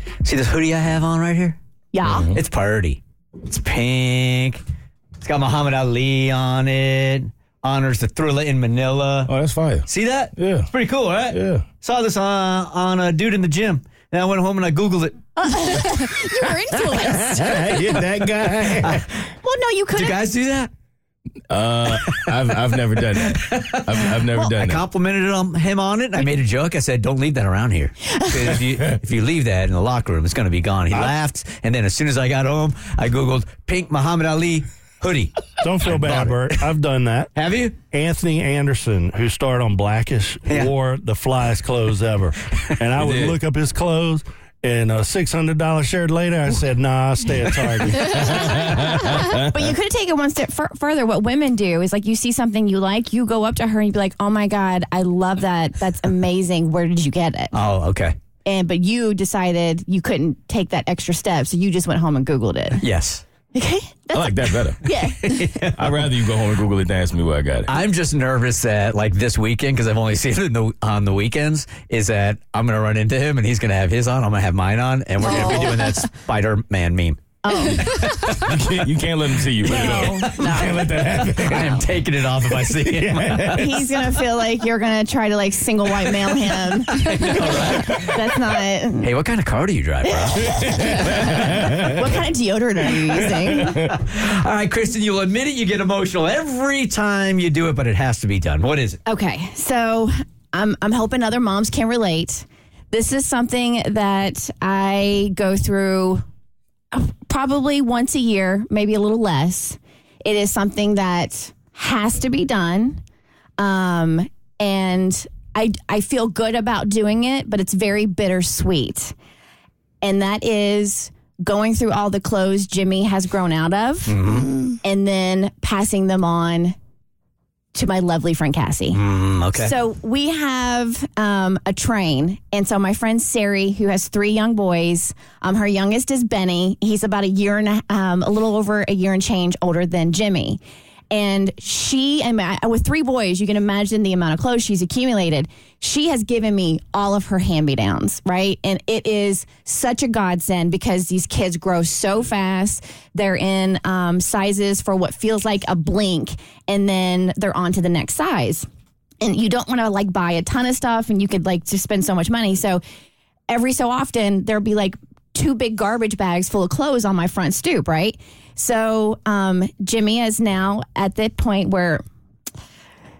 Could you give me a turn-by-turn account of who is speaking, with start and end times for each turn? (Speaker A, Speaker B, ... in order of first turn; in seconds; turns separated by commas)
Speaker A: 0.2-1.6, Speaker B: 1.9-2.3, Speaker C: 2.0-2.4, Speaker A: 2.3-4.6, Speaker A: 5.2-9.3, Speaker C: 9.3-10.7, Speaker A: 9.8-15.2, Speaker C: 11.3-11.7, Speaker B: 15.4-18.0, Speaker C: 17.2-18.9, Speaker A: 18.8-19.2, Speaker B: 19.4-20.2, Speaker A: 19.9-20.7, Speaker C: 21.5-24.8, Speaker A: 21.9-22.3, Speaker A: 23.1-36.7, Speaker D: 35.6-37.3, Speaker A: 37.3-37.8, Speaker D: 37.9-48.7, Speaker A: 40.5-40.7, Speaker A: 42.5-43.4, Speaker B: 47.8-57.5, Speaker A: 57.5-58.1, Speaker B: 58.4-62.8, Speaker A: 62.8-63.2, Speaker B: 63.5-65.4, Speaker C: 64.1-64.8, Speaker A: 65.0-66.0, Speaker C: 65.8-67.7, Speaker A: 67.7-78.5, Speaker B: 75.2-76.0, Speaker B: 77.4-78.1, Speaker C: 78.3-81.8, Speaker A: 79.6-83.7, Speaker B: 79.7-80.8, Speaker C: 83.1-83.6, Speaker B: 83.5-89.1, Speaker A: 86.9-88.2, Speaker A: 89.0-90.9, Speaker B: 90.1-93.8, Speaker A: 93.8-99.0, Speaker B: 99.1-106.2, Speaker B: 106.9-113.0, Speaker B: 113.6-119.1, Speaker B: 120.0-124.2, Speaker A: 124.1-124.6, Speaker B: 124.8-126.8, Speaker B: 127.7-158.7, Speaker A: 128.9-129.7, Speaker B: 159.2-162.8, Speaker B: 163.5-172.0